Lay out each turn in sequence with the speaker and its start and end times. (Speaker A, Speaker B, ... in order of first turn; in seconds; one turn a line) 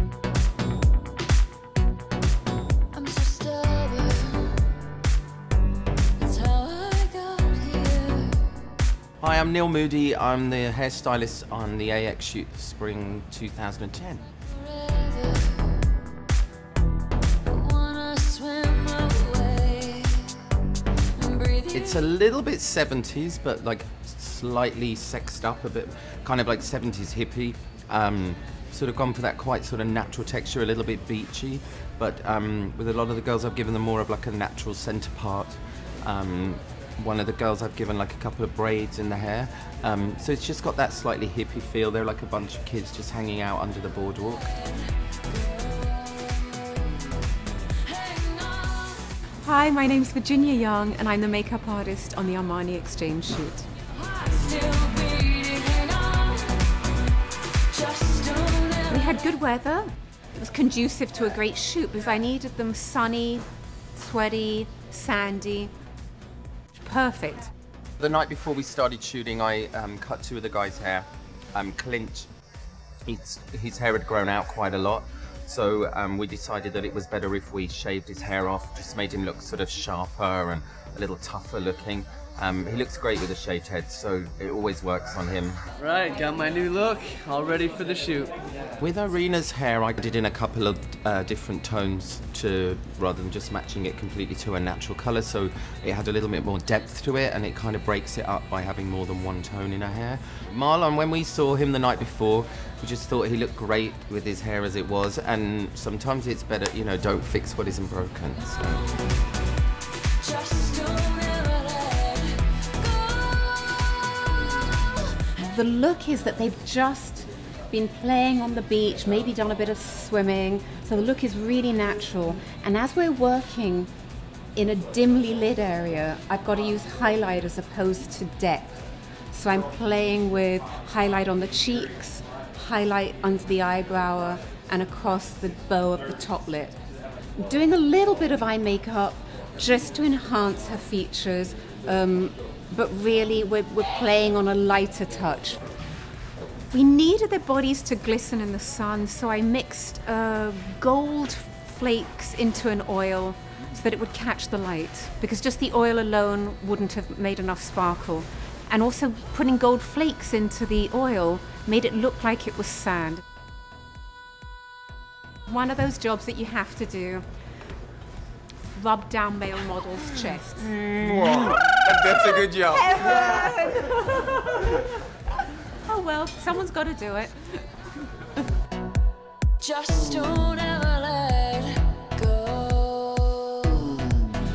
Speaker A: 2.9-4.6
Speaker A: 6.2-8.5
Speaker B: 9.2-14.3
Speaker A: 14.5-15.8
Speaker A: 17.4-20.4
Speaker A: 21.1-22.0
Speaker B: 21.7-44.6
Speaker A: 45.3-47.0
Speaker A: 47.8-49.1
Speaker C: 49.4-53.6
Speaker A: 54.0-56.7
Speaker A: 57.7-59.2
Speaker C: 58.9-65.7
Speaker C: 66.7-67.5
Speaker B: 68.0-72.3
Speaker B: 73.0-85.6
Speaker D: 85.8-88.3
Speaker B: 88.8-109.0
Speaker A: 110.2-114.9
Speaker C: 115.3-123.9
Speaker C: 124.5-128.8
Speaker C: 129.3-136.8
Speaker C: 137.4-145.6
Speaker C: 146.7-163.2
Speaker C: 165.4-167.2
Speaker C: 168.7-170.7
Speaker B: 170.8-172.9
Speaker C: 171.4-174.9
Speaker C: 175.8-177.4
Speaker A: 179.6-184.2